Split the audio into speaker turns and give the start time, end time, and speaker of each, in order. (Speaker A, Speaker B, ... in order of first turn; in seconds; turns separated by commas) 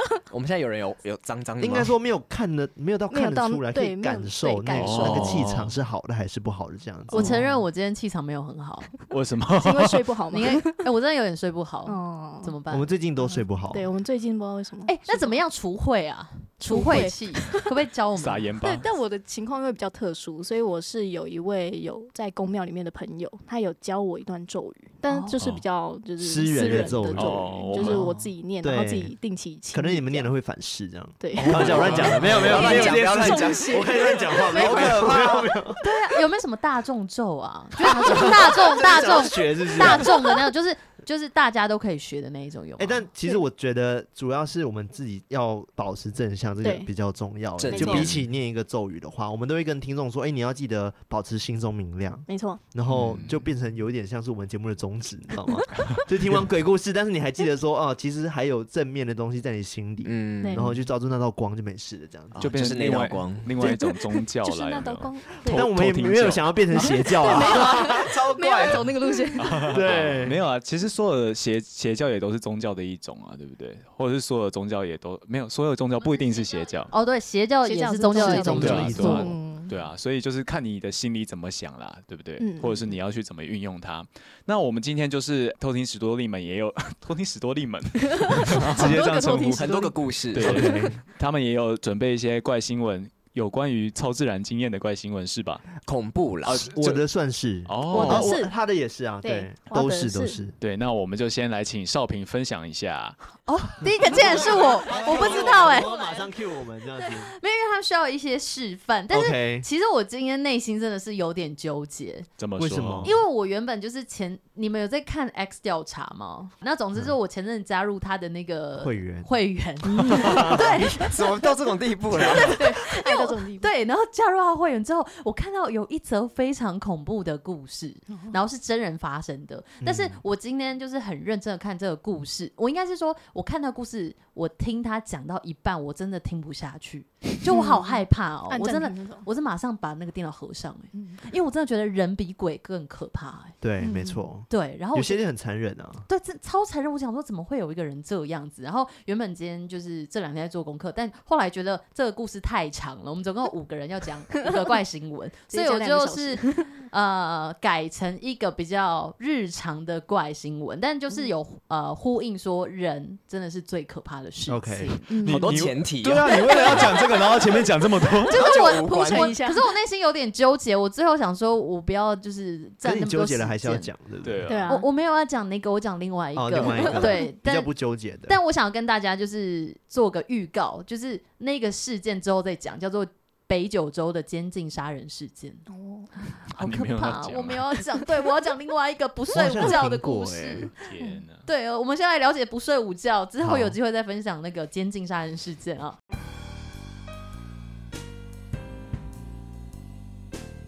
Speaker A: 0.3-1.9, Speaker B: 1.6-7.5, Speaker C: 3.1-5.4, Speaker D: 4.8-5.7, Speaker E: 7.1-8.9, Speaker D: 7.2-7.5, Speaker D: 9.1-10.1, Speaker C: 9.6-10.8, Speaker E: 10.3-12.9, Speaker C: 11.8-12.6, Speaker B: 12.7-13.9, Speaker C: 13.7-15.4, Speaker E: 14.8-18.5, Speaker C: 16.7-17.7, Speaker D: 18.1-18.9, Speaker C: 18.6-30.3, Speaker E: 25.1-25.4, Speaker B: 26.2-28.0, Speaker D: 26.9-28.3, Speaker B: 28.6-29.1, Speaker B: 29.7-36.0, Speaker C: 31.2-35.1, Speaker D: 31.3-32.6, Speaker A: 31.9-35.5, Speaker E: 35.8-43.0, Speaker B: 37.8-40.3, Speaker B: 42.8-62.5, Speaker C: 46.6-46.9, Speaker A: 47.6-48.2, Speaker C: 47.7-48.1, Speaker C: 52.3-52.6, Speaker D: 52.9-53.4, Speaker A: 60.0-60.7, Speaker A: 62.3-63.6, Speaker D: 62.4-66.9, Speaker C: 63.6-65.7, Speaker B: 65.5-68.0, Speaker C: 66.7-69.8, Speaker A: 67.2-69.0, Speaker D: 69.4-76.9, Speaker B: 69.7-70.4, Speaker E: 76.9-79.3, Speaker C: 77.6-79.7, Speaker B: 78.1-79.4, Speaker D: 78.6-89.7, Speaker C: 82.4-83.0, Speaker C: 88.0-90.0, Speaker A: 88.6-88.8, Speaker B: 88.7-88.9, Speaker A: 89.5-90.7, Speaker D: 90.3-95.7, Speaker B: 90.4-91.0, Speaker C: 90.6-90.9, Speaker A: 95.8-97.0, Speaker B: 96.5-100.5, Speaker D: 97.7-98.4, Speaker C: 97.9-98.5, Speaker C: 99.2-100.4, Speaker D: 100.6-103.2, Speaker E: 103.4-105.9, Speaker B: 103.8-107.3, Speaker C: 104.8-106.3, Speaker E: 107.1-112.3, Speaker B: 109.1-109.7, Speaker D: 112.4-113.1, Speaker B: 112.6-113.1, Speaker E: 113.0-121.2, Speaker B: 118.8-119.3, Speaker C: 119.9-120.5, Speaker B: 120.0-120.7, Speaker A: 120.8-122.7, Speaker C: 122.3-123.7, Speaker E: 122.5-143.5, Speaker B: 129.8-130.2, Speaker C: 137.5-139.3, Speaker C: 140.9-141.2, Speaker B: 143.6-146.1, Speaker C: 143.8-144.2, Speaker E: 144.5-145.2, Speaker E: 146.1-165.2, Speaker C: 155.5-156.7, Speaker B: 164.5-165.0, Speaker C: 165.1-165.4, Speaker A: 165.2-167.2, Speaker D: 165.2-168.4, Speaker C: 166.6-167.6, Speaker E: 168.3-173.9, Speaker A: 168.3-169.3, Speaker C: 168.4-169.6, Speaker B: 172.8-174.4, Speaker D: 174.2-174.8, Speaker C: 174.5-174.9, Speaker E: 174.7-177.7, Speaker B: 176.3-178.4, Speaker C: 176.6-177.2, Speaker E: 178.2-185.7, Speaker C: 185.7-186.1, Speaker E: 186.2-190.8, Speaker D: 186.5-187.6, Speaker B: 189.3-190.7, Speaker D: 190.7-191.4, Speaker E: 191.4-195.9, Speaker B: 193.4-193.8